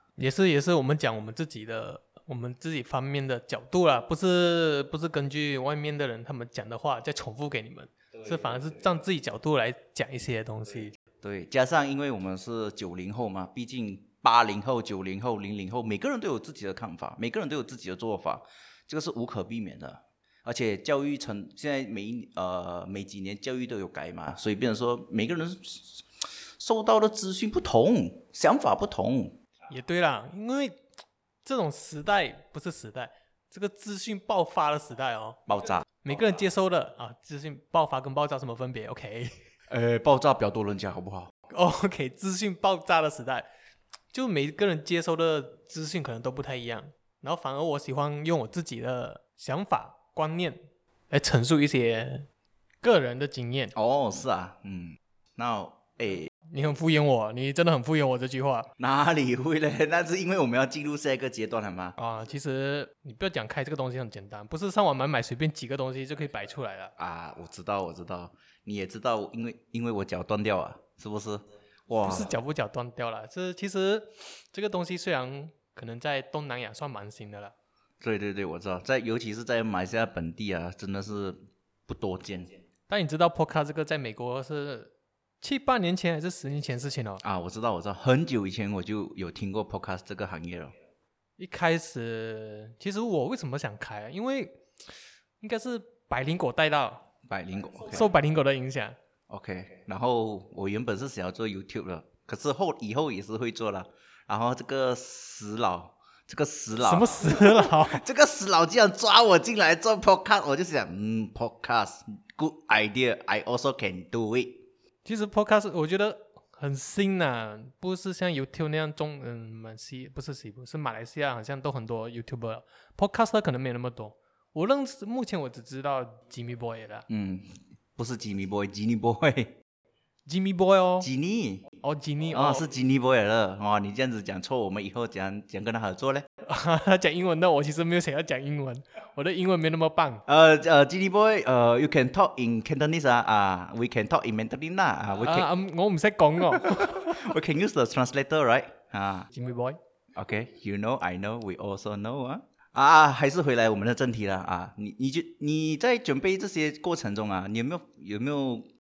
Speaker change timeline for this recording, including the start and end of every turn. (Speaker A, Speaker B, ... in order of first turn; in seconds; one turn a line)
Speaker A: 0.2-10.9
Speaker B: 11.2-26.0
Speaker B: 26.6-29.4
Speaker A: 29.7-30.8
Speaker A: 31.4-39.3
Speaker B: 35.5-35.9
Speaker B: 39.7-41.3
Speaker A: 41.5-43.5
Speaker A: 44.1-50.6
Speaker A: 51.1-52.3
Speaker A: 52.8-53.7
Speaker B: 53.8-56.3
Speaker A: 56.5-58.7
Speaker B: 58.8-62.0
Speaker A: 62.0-66.9
Speaker B: 67.0-72.3
Speaker A: 72.0-77.5
Speaker B: 78.0-82.5
Speaker A: 82.9-87.2
Speaker B: 87.2-90.8
Speaker A: 91.4-94.6
Speaker A: 95.4-97.0
Speaker B: 97.3-98.0
Speaker A: 97.9-99.0
Speaker B: 99.3-114.6
Speaker A: 106.8-108.0
Speaker A: 115.0-127.1
Speaker B: 127.1-129.6
Speaker A: 130.3-131.1
Speaker B: 131.0-131.7
Speaker A: 131.8-132.7
Speaker B: 132.3-136.3
Speaker A: 136.4-140.2
Speaker B: 140.3-145.5
Speaker A: 145.2-147.3
Speaker B: 146.7-149.3
Speaker A: 149.3-149.8
Speaker B: 150.2-158.7